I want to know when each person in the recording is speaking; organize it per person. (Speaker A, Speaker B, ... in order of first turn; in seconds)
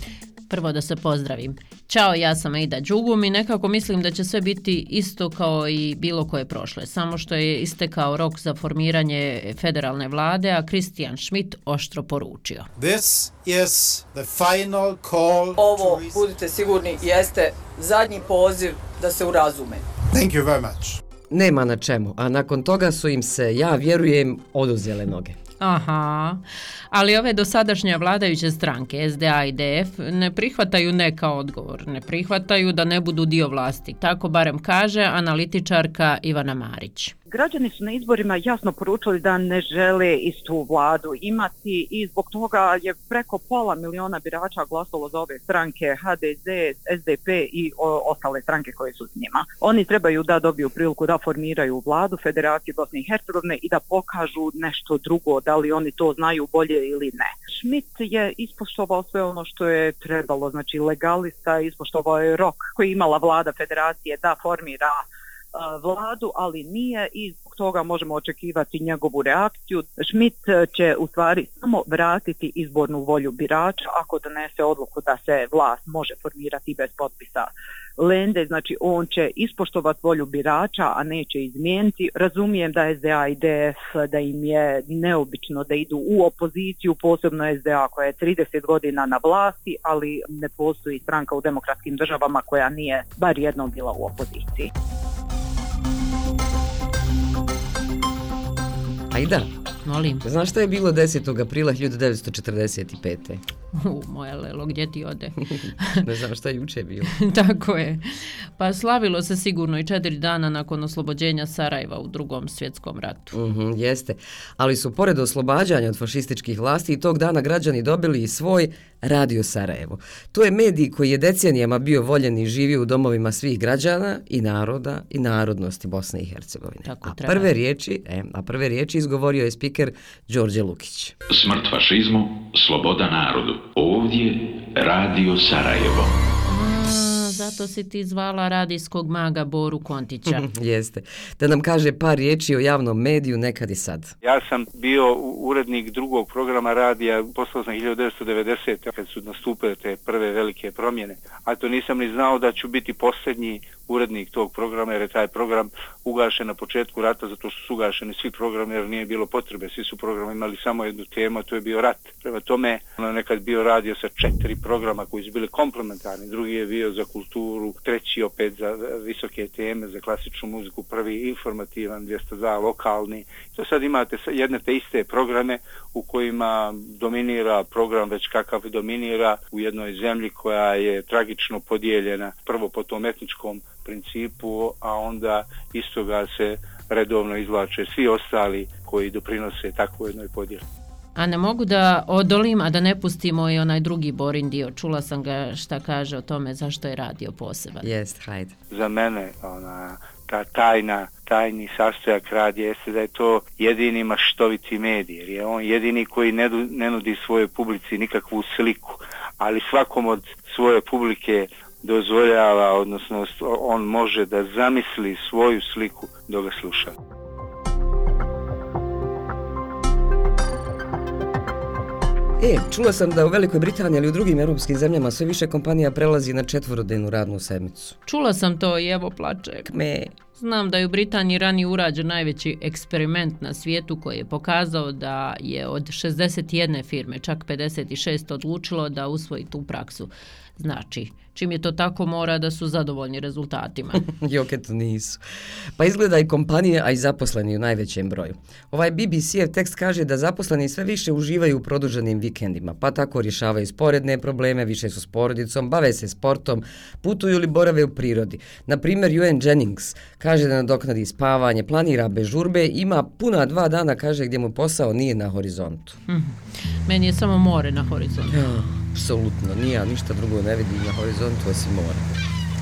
Speaker A: 0.5-12.7, 25.6-26.4, 26.9-37.1, 99.8-100.2, 103.7-106.0, 107.1-108.0, 108.6-113.3, 126.8-127.5, 136.4-140.4, 191.2-197.9, 228.1-229.7, 230.3-244.0, 266.1-268.5
Speaker B: 12.8-16.3, 20.1-21.0
Speaker C: 15.6-19.9
Speaker D: 21.3-25.4, 99.1-99.5, 100.2-103.4, 106.0-107.1, 113.3-131.2, 140.3-144.1, 197.8-198.6, 222.4-228.0, 229.7-230.1, 244.1-245.2, 245.8-266.0, 268.3-272.1
Speaker E: 37.3-65.0, 65.5-94.7
Speaker F: 131.3-136.1
Speaker G: 144.2-190.6, 198.7-216.9